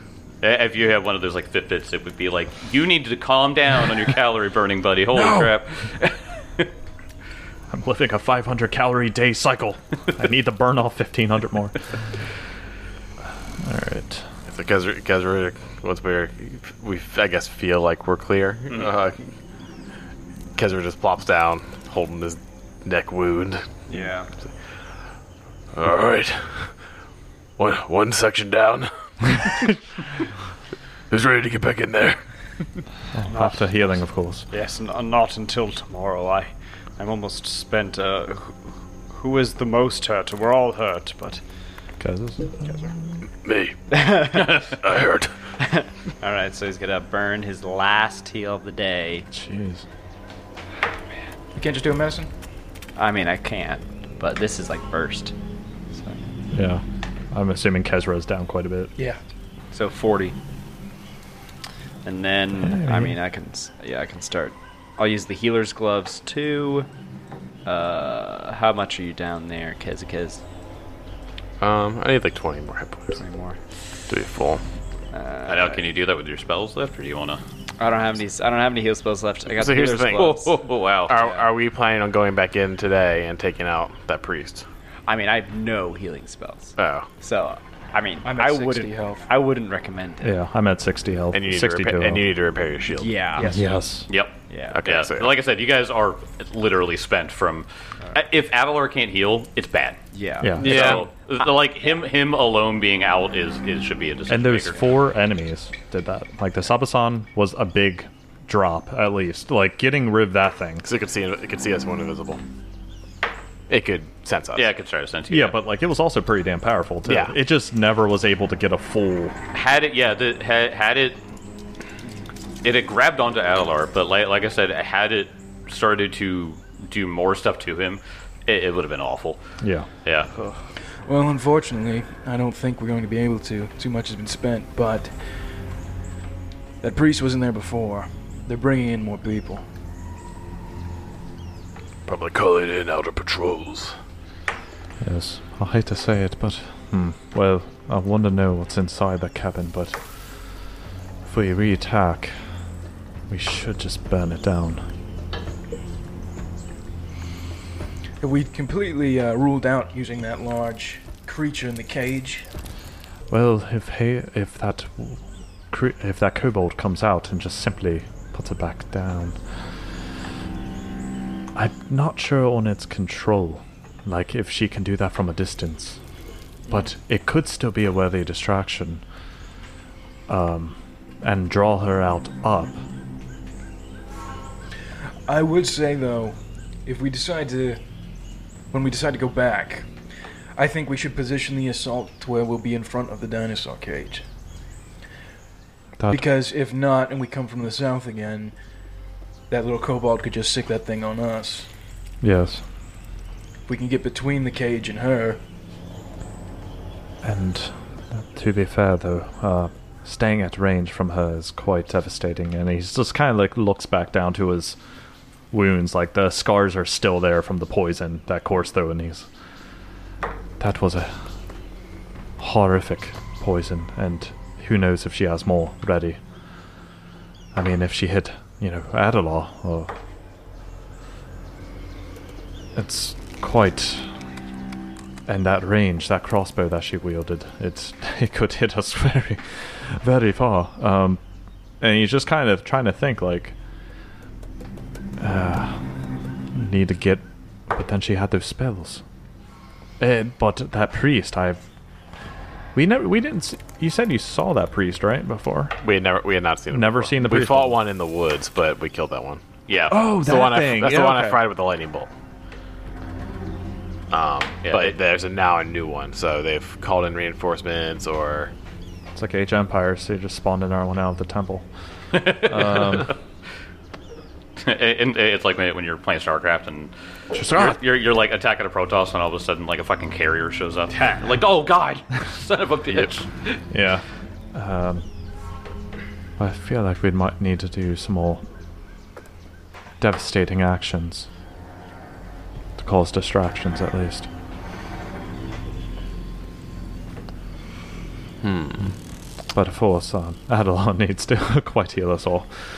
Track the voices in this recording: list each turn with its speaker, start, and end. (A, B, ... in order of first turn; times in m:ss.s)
0:00.4-0:06.7 A
0:05.1-0:05.5 B
0:07.7-0:11.7 B
0:13.6-0:14.2 B
0:14.5-0:19.3 C
0:20.6-0:23.7 C
0:23.9-0:24.3 D
0:25.7-0:26.7 C
0:27.6-0:29.7 C
0:31.1-0:32.2 C
0:33.1-0:34.4 B
0:33.2-0:41.4 D
0:42.0-0:42.9 B
0:42.6-0:42.9 D
0:43.4-0:45.3 C
0:43.9-0:44.6 D
0:45.6-0:49.2 D
0:49.3-0:49.8 B
0:51.6-0:52.3 E
0:53.0-0:55.3 D
0:55.9-0:56.3 D
0:56.5-0:58.9 B
0:59.7-1:00.4 D
1:02.0-1:06.9 D
1:02.6-1:03.1 B
1:07.6-1:10.4 D
1:11.6-1:13.2 C
1:13.1-1:13.6 D
1:14.1-1:14.6 C
1:15.1-1:15.8 D
1:15.5-1:17.4 A
1:17.8-1:20.5 D
1:19.5-1:20.4 C
1:20.2-1:21.2 A
1:21.1-1:24.6 C
1:21.2-1:21.4 D
1:25.1-1:30.3 D
1:26.8-1:27.1 C
1:28.2-1:29.2 E
1:30.2-1:32.3 B
1:31.3-1:33.2 C
1:33.0-1:33.6 D
1:33.4-1:33.8 E
1:33.5-1:34.1 B
1:34.1-1:40.0 A
1:34.5-1:34.8 D
1:34.7-1:35.3 C
1:40.1-1:40.8 D
1:40.4-1:41.0 B
1:40.6-1:41.0 C
1:40.6-1:44.8 A
1:44.3-1:50.8 B
1:50.8-1:52.4 C
1:53.7-1:54.7 C
1:54.5-1:55.6 A
1:55.3-1:59.4 B
1:57.0-1:57.3 C
1:59.5-2:01.2 A
2:02.6-2:09.4 A
2:09.6-2:09.9 B
2:10.0-2:10.3 A
2:11.0-2:15.2 E
2:16.8-2:19.6 E
2:22.0-2:23.9 C
2:25.0-2:30.0 B
2:31.2-2:32.6 B
2:33.3-2:34.9 B
2:38.2-2:42.5 E
2:43.3-2:49.4 B
2:51.5-2:56.0 B
2:56.7-2:59.0 B
3:00.3-3:02.8 B
3:05.3-3:07.8 E
3:08.7-3:09.9 E
3:10.6-3:14.2 E
3:16.0-3:16.2 B
3:16.1-3:18.5 E
3:19.5-3:21.7 E
3:22.2-3:22.6 B
3:23.7-3:25.4 E
3:27.2-3:34.8 B
3:35.5-3:39.3 B
3:40.6-3:41.2 B
3:42.4-3:46.2 B
3:47.5-3:49.9 B
3:52.7-3:54.1 B
3:55.3-4:01.2 B
4:01.8-4:03.5 B
4:05.2-4:05.8 B
4:06.5-4:09.0 B
4:10.0-4:11.6 B
4:12.7-4:15.8 B
4:15.8-4:19.4 C
4:16.7-4:17.8 B
4:19.7-4:20.0 A
4:19.9-4:21.4 B
4:20.1-4:22.1 C
4:24.1-4:28.5 C
4:24.6-4:24.9 A
4:29.1-4:31.7 B
4:32.1-4:33.1 A
4:32.3-4:33.1 B
4:34.6-4:43.6 A
4:37.3-4:37.8 B
4:43.7-4:45.0 B
4:46.4-4:48.4 B
4:50.0-4:51.3 B
4:52.8-4:54.3 B
4:58.4-4:58.9 C
4:59.5-5:02.5 B